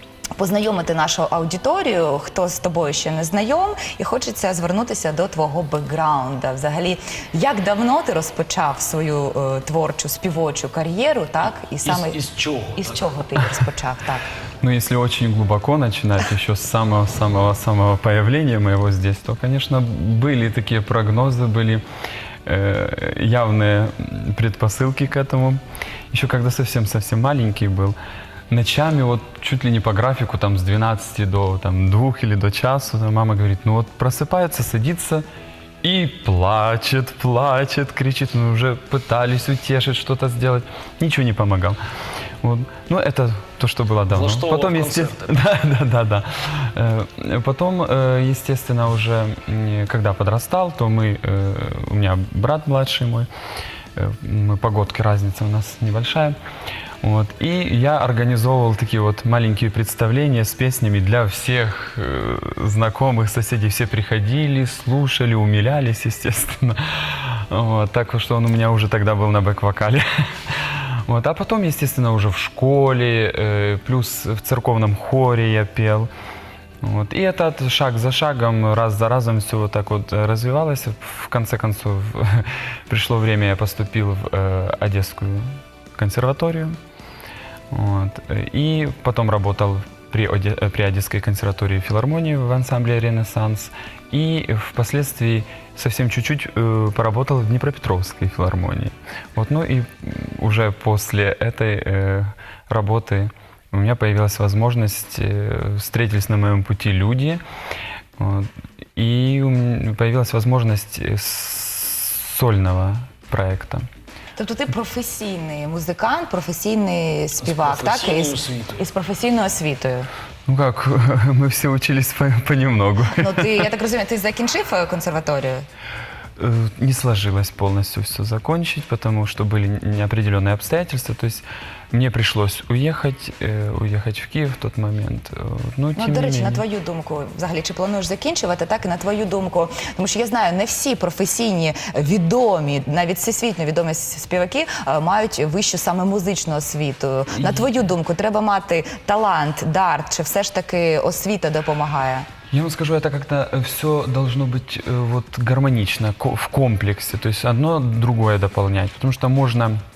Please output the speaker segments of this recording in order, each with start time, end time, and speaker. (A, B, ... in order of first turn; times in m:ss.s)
0:00.4-0:12.2 A
0:11.8-0:13.0 B
0:12.8-0:14.3 A
0:14.6-0:21.8 C
0:22.5-0:25.6 C
0:26.1-0:28.0 C
0:28.5-0:35.2 C
0:35.8-0:41.8 C
0:42.4-0:53.3 C
0:44.1-0:45.4 B
0:54.0-0:56.4 C
0:57.0-1:16.1 C
1:16.8-1:26.8 C
1:27.7-1:47.4 C
1:48.2-1:53.9 C
1:54.4-2:00.1 A
1:57.4-1:58.8 B
2:00.5-2:03.6 C
2:03.2-2:05.7 A
2:06.4-2:16.6 C
2:16.0-2:32.3 A
2:27.4-2:27.7 C
2:32.5-2:39.8 C